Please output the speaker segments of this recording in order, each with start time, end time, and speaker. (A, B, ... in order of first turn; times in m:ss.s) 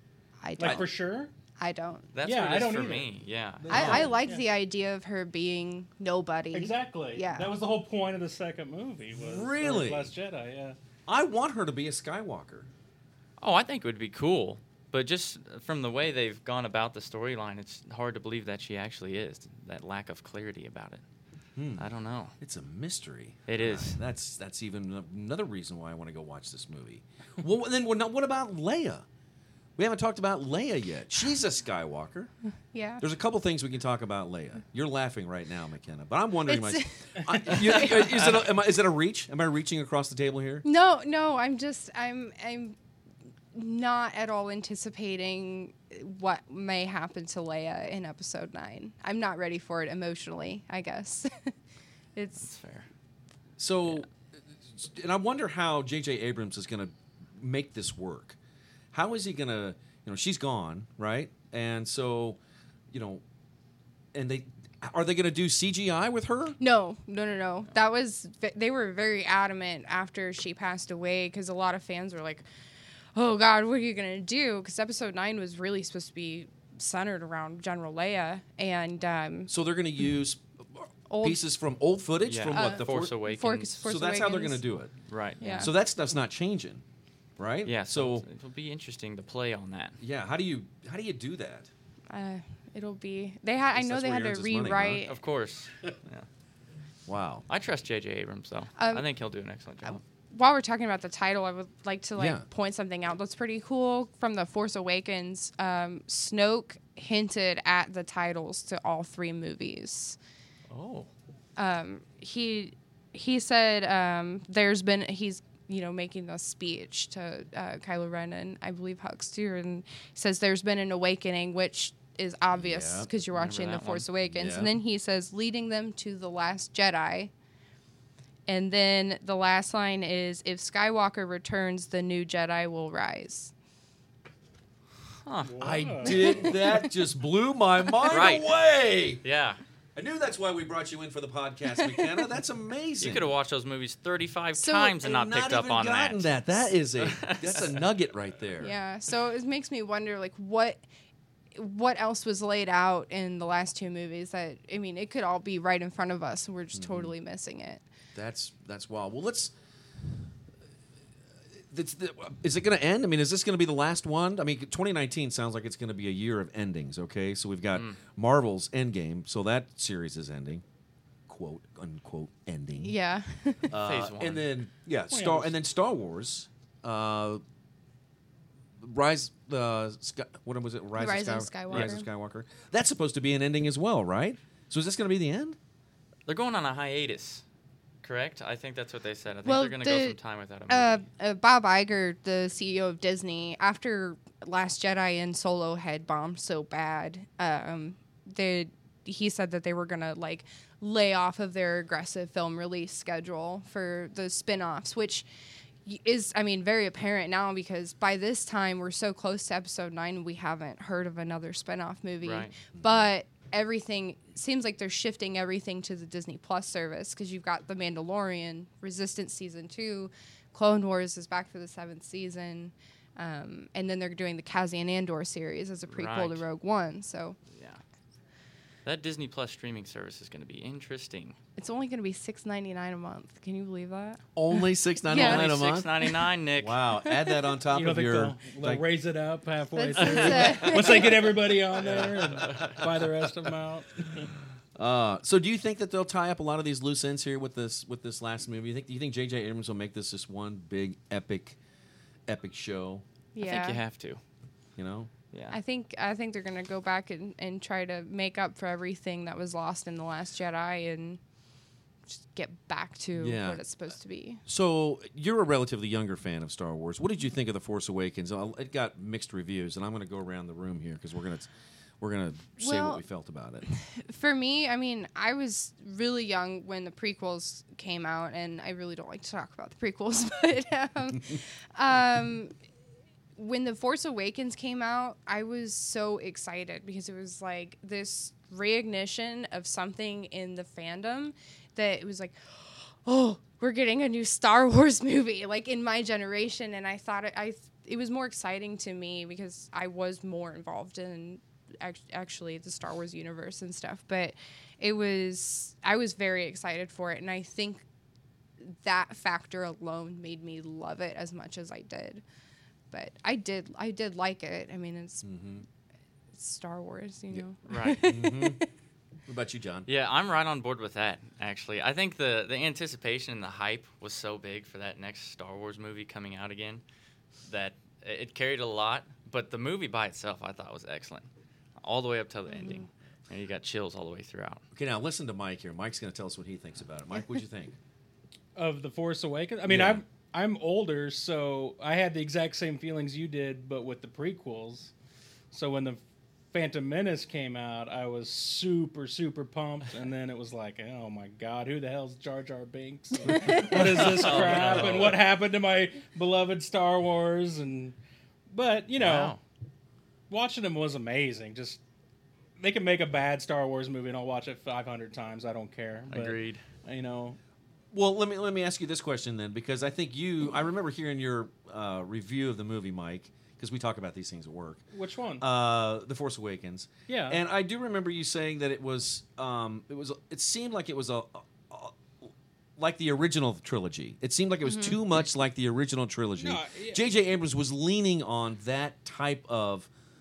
0:00.4-0:00.9 A
0:00.6-0:01.3 B
0:01.6-0:02.1 A
0:02.1-0:04.0 C
0:02.2-0:03.1 B
0:03.6-0:04.4 B
0:03.7-0:07.5 A
0:03.7-0:04.1 D
0:06.5-0:10.8 B
0:09.2-0:10.1 D
0:11.1-0:12.7 D
0:13.4-0:21.0 C
0:21.6-0:21.9 D
0:21.8-0:22.3 C
0:22.4-0:29.1 D
0:23.5-0:24.0 C
0:29.8-0:32.3 D
0:32.7-0:33.0 A
0:33.0-0:40.6 D
0:36.5-0:38.0 A
0:40.6-0:42.8 A
0:43.5-0:51.5 A
0:52.2-0:52.5 A
0:52.4-0:52.9 C
0:53.6-0:54.1 D
0:54.6-0:58.4 D
0:58.9-1:02.4 D
1:02.9-1:03.2 D
1:04.1-1:06.6 D
1:06.6-1:12.4 A
1:13.2-1:19.5 A
1:19.5-1:23.2 D
1:21.1-1:21.4 A
1:22.2-1:23.8 C
1:22.5-1:24.6 A
1:23.8-1:25.0 D
1:25.1-1:25.7 C
1:25.4-1:25.7 A
1:25.5-1:26.8 D
1:27.4-1:28.3 D
1:27.6-1:30.0 C
1:30.0-1:31.7 D
1:32.1-1:35.2 A
1:33.7-1:35.0 D
1:35.1-1:36.3 C
1:37.1-1:37.5 D
1:37.5-1:40.0 C
1:38.8-1:39.0 A
1:39.9-1:50.2 A
1:42.2-1:42.4 D
1:50.7-1:51.1 C
1:51.6-2:07.3 A
2:02.5-2:03.1 D
2:03.3-2:04.1 C
2:04.3-2:04.7 D
2:08.5-2:13.5 A
2:15.2-2:15.6 C
2:15.4-2:16.2 B
2:15.6-2:19.2 D
2:16.3-2:16.9 A
2:18.1-2:18.5 C
2:19.2-2:19.6 C
2:20.0-2:23.3 D
2:23.0-2:26.3 C
2:24.6-2:25.0 A
2:25.0-2:28.8 D
2:27.0-2:27.8 C
2:28.6-2:30.8 A
2:31.6-2:37.8 A
2:36.7-2:37.1 D
2:38.2-2:39.5 D
2:41.7-2:50.6 D
2:51.3-2:53.0 D
2:52.8-2:53.7 A
2:53.7-2:57.4 D
2:53.8-2:54.5 C
2:55.1-2:55.5 B
2:58.8-3:05.6 D
3:01.0-3:02.1 A
3:06.3-3:07.4 C
3:08.0-3:11.1 C
3:09.4-3:10.2 A
3:10.7-3:25.3 A
3:25.9-3:47.4 A
3:32.2-3:32.5 C
3:32.7-3:33.1 D
3:45.9-3:46.4 C
3:47.5-3:47.8 C
3:48.8-3:51.4 C
3:51.6-3:54.2 A
3:54.4-3:55.9 D
3:55.1-3:55.4 A
3:55.1-3:56.8 C
3:56.6-3:58.8 D
3:57.7-4:04.3 B
3:59.7-4:01.3 A
4:01.8-4:02.8 C
4:04.8-4:11.6 D
4:12.3-4:13.0 D
4:13.4-4:13.8 A
4:13.4-4:14.2 C
4:14.8-4:15.1 D
4:15.3-4:15.6 C
4:15.5-4:21.2 A
4:22.1-4:24.4 A
4:23.2-4:23.6 D
4:24.5-4:33.7 D
4:32.6-4:33.0 A
4:33.7-4:42.5 A
4:43.4-5:07.8 A
5:08.6-5:12.2 A
5:12.9-5:15.3 A
5:15.2-5:15.6 D
5:16.3-5:18.6 A
5:17.7-5:18.0 C
5:18.0-5:18.6 D
5:19.3-5:19.9 D
5:19.9-5:26.8 C
5:27.5-5:31.3 C
5:31.8-5:34.6 C
5:32.5-5:32.9 A
5:34.7-5:37.8 D
5:38.6-5:44.9 B
5:39.7-5:40.0 D
5:45.5-5:46.0 B
5:46.5-5:58.0 B
5:53.3-5:53.6 A
5:53.4-5:55.2 C
5:58.5-5:59.4 B
5:59.0-5:59.4 C
6:00.3-6:01.8 B
6:02.6-6:07.4 B
6:06.1-6:06.6 C
6:07.9-6:14.8 D
6:14.9-6:15.4 B
6:15.4-6:29.9 D
6:17.1-6:17.4 B
6:24.6-6:25.0 A
6:26.4-6:27.0 B